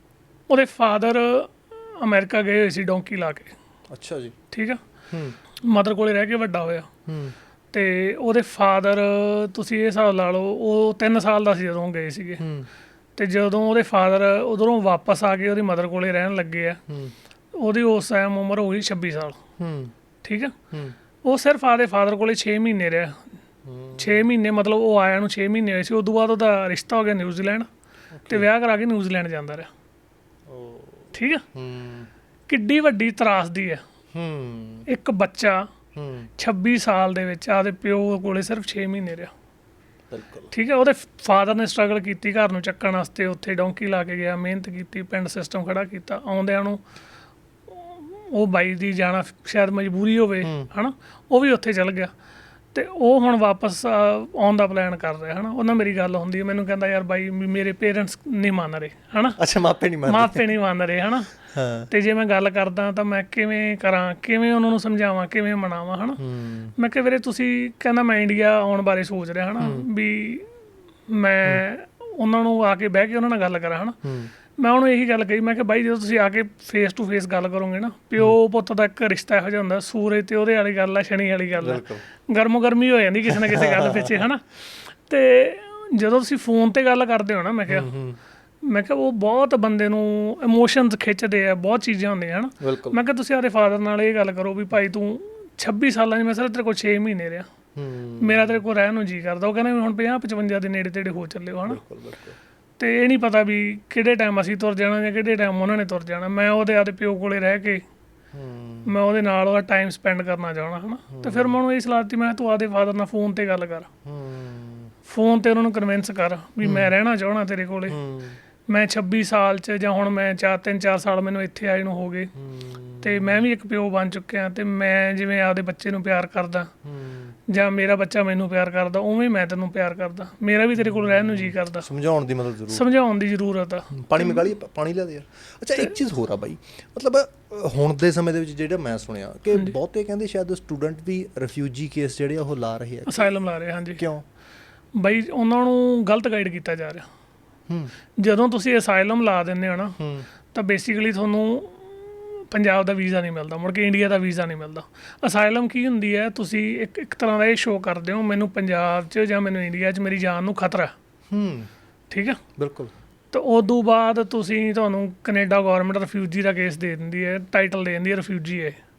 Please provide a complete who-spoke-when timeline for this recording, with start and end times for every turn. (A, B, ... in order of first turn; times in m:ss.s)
0:00.5-0:03.5 A
0:03.9-0:04.4 B
0:04.5-0:04.8 A
0:05.1-0:05.4 B
0:05.6-0:06.9 A
0:07.1-0:07.3 B
0:07.7-0:12.4 A
0:12.4-0:12.7 B
0:13.2-0:16.8 A
0:16.9-0:17.1 B
0:17.6-0:19.4 A
0:19.6-0:19.9 B
0:20.2-0:20.6 A
0:21.2-0:23.1 A
0:23.7-0:24.2 B
0:24.0-0:27.7 A
0:28.1-0:28.5 B
0:28.3-0:29.7 A
0:30.5-0:32.1 B
0:31.1-0:31.4 A
0:32.5-0:33.8 A
0:34.1-0:34.9 B
0:34.9-0:35.7 A
0:36.0-0:36.3 B
0:36.4-0:39.3 A
0:40.1-0:40.5 B
0:40.5-0:46.8 A
0:47.7-0:52.1 A
0:50.4-0:50.7 B
0:52.7-0:59.4 A
0:59.4-1:00.5 B
1:00.0-1:01.3 A
1:01.5-1:01.9 B
1:01.9-1:06.2 A
1:06.2-1:06.7 B
1:06.8-1:10.5 A
1:09.6-1:09.9 B
1:11.1-1:14.0 A
1:14.0-1:14.3 B
1:14.6-1:27.9 A
1:21.6-1:22.0 B
1:23.2-1:24.3 B
1:27.7-1:28.2 B
1:28.6-1:37.4 A
1:32.6-1:33.0 B
1:37.8-1:38.6 B
1:38.2-1:41.8 A
1:41.7-1:42.4 B
1:42.8-1:47.8 A
1:48.3-1:48.9 B
1:48.9-1:53.9 A
1:51.1-1:51.6 B
1:54.0-1:54.9 B
1:55.0-1:58.0 A
1:56.6-1:56.9 B
1:57.9-1:58.4 B
1:58.7-2:02.3 A
2:02.4-2:03.4 B
2:03.0-2:06.7 A
2:06.8-2:07.4 B
2:07.5-2:11.9 A
2:10.8-2:12.8 B
2:12.7-2:14.5 A
2:13.9-2:23.3 B
2:23.1-2:24.0 A
2:24.0-2:24.2 B
2:25.0-2:27.1 A
2:28.2-2:30.0 A
2:30.0-2:30.3 B
2:30.5-2:40.9 A
2:41.3-2:41.7 B
2:42.1-2:42.4 A
2:42.6-2:42.9 B
2:43.3-2:48.8 A